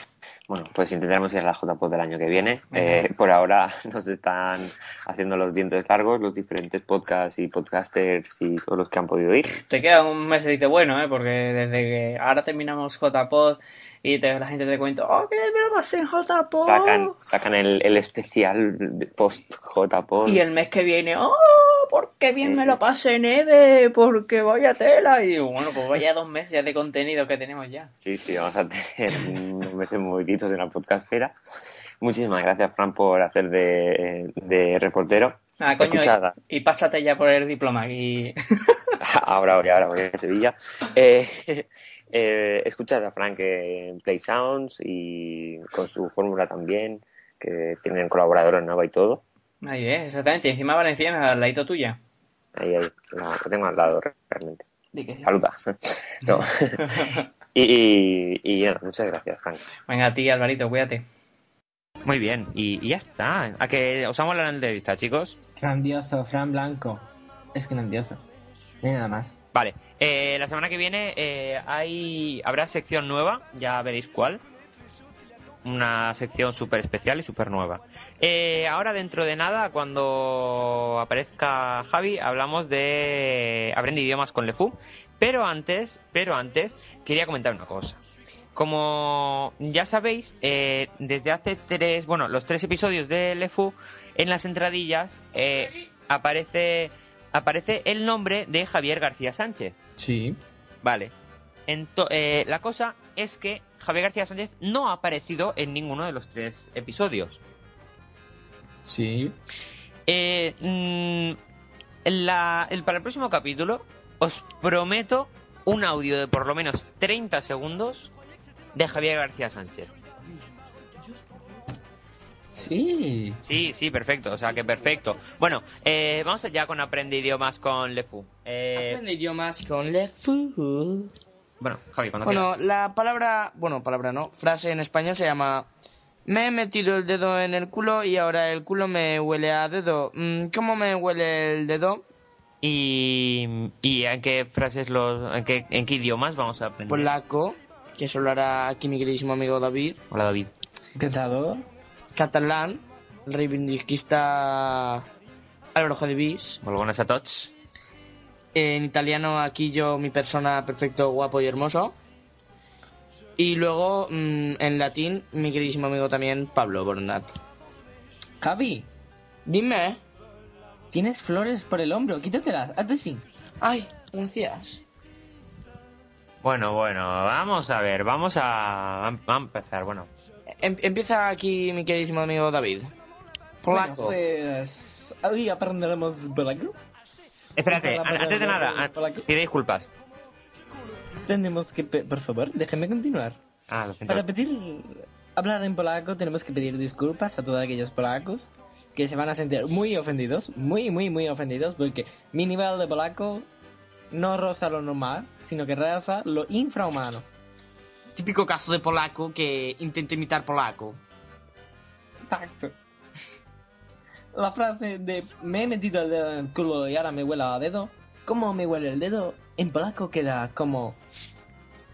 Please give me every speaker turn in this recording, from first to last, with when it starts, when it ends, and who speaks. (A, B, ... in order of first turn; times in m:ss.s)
0:00.5-0:09.6 A
0:02.7-0:03.1 B
0:09.7-0:17.2 B
0:16.6-0:20.4 A
0:20.2-0:27.9 B
0:22.4-0:22.8 A
0:28.0-0:31.4 A
0:32.0-0:36.3 A
0:35.6-0:39.0 B
0:39.0-0:49.2 A
0:49.6-0:52.0 B
0:52.6-0:54.7 A
0:54.9-0:55.3 B
0:55.2-0:56.8 A
0:56.3-0:57.2 B
0:57.5-0:59.6 A
0:59.9-1:01.0 B
1:02.0-1:05.4 C
1:05.6-1:08.2 D
1:08.8-1:09.3 D
1:09.5-1:14.4 C
1:15.6-1:28.0 C
1:28.5-1:39.8 C
1:40.0-1:40.4 D
1:40.8-1:41.1 C
1:41.7-1:47.4 C
1:48.8-1:49.3 D
1:50.1-1:51.4 C
1:52.0-1:58.1 C
1:58.7-1:59.9 C
2:02.5-2:03.4 D
2:03.4-2:09.0 C
2:08.8-2:11.1 E
2:11.6-2:12.5 C
2:12.2-2:15.7 E
2:16.2-2:22.0 E
2:22.6-2:27.1 C
2:26.9-2:30.0 E
2:30.1-2:30.5 C
2:30.9-2:31.6 D
2:32.1-2:35.1 E
2:35.7-2:36.6 E
2:36.6-2:37.5 C
2:38.5-2:41.9 E
2:43.4-2:47.4 E
2:48.4-2:48.9 D
2:49.4-2:50.0 E
2:50.9-2:53.2 D
2:53.6-2:54.8 E
2:56.4-3:00.1 C
3:00.6-3:02.9 E
3:03.6-3:06.7 D
3:03.6-3:04.2 E
3:07.6-3:09.9 C
3:07.7-3:09.2 D
3:11.3-3:13.4 D
3:13.7-3:14.3 C
3:14.1-3:23.5 D
3:24.1-3:27.2 D
3:28.2-3:31.0 E
3:32.2-3:32.7 D
3:34.3-3:41.0 D